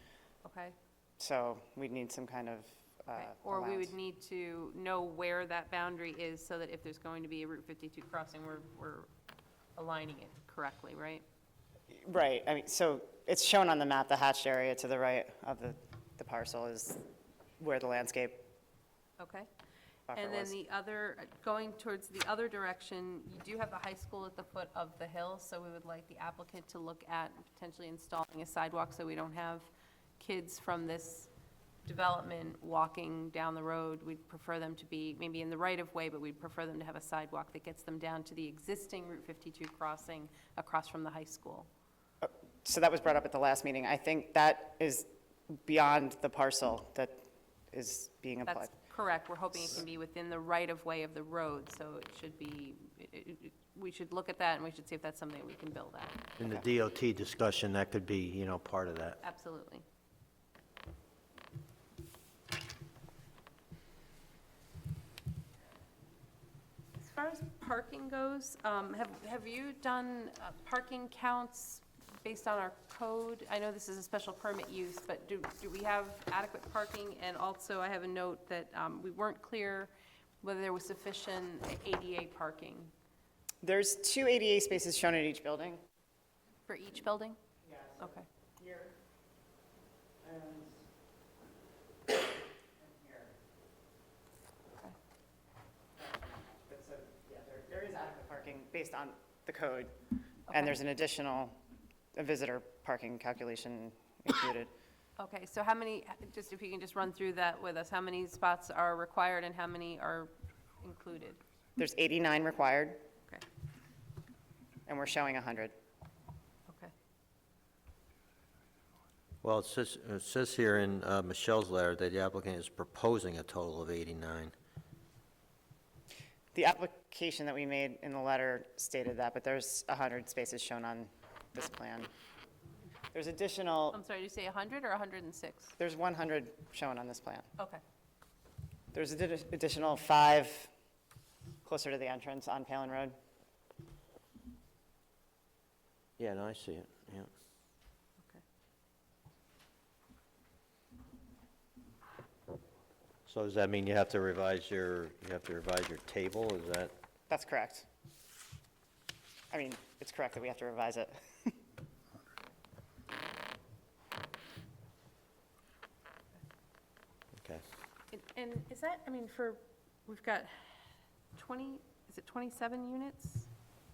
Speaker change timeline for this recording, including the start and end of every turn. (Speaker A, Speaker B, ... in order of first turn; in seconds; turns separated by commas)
Speaker A: 0.4-0.8, Speaker B: 1.2-3.9, Speaker A: 3.2-9.1, Speaker A: 9.8-11.2, Speaker B: 11.9-17.0, Speaker B: 17.6-18.5, Speaker A: 19.2-19.5, Speaker B: 20.1-20.6, Speaker A: 20.1-31.3, Speaker A: 31.9-41.7, Speaker B: 42.2-47.2, Speaker B: 47.7-48.7, Speaker A: 48.5-56.2, Speaker C: 56.4-59.2, Speaker A: 59.2-59.9, Speaker A: 67.0-82.9, Speaker B: 83.6-85.8, Speaker A: 86.7-87.4, Speaker B: 87.7-89.0, Speaker A: 88.0-88.3, Speaker B: 90.2-90.8, Speaker B: 92.8-93.3, Speaker B: 96.0-99.9, Speaker B: 100.5-101.6, Speaker B: 102.2-104.7, Speaker A: 105.2-111.4, Speaker B: 111.8-113.0, Speaker B: 114.9-115.7, Speaker A: 116.7-116.9, Speaker C: 119.4-124.5, Speaker B: 126.5-132.1, Speaker B: 133.1-134.0, Speaker A: 133.9-135.8, Speaker B: 135.8-137.5, Speaker B: 138.9-140.7, Speaker B: 141.6-143.2, Speaker C: 146.2-147.3, Speaker C: 153.3-156.9, Speaker B: 157.3-157.9, Speaker B: 159.5-161.5, Speaker C: 167.4-167.6, Speaker A: 168.1-170.7, Speaker A: 171.3-173.5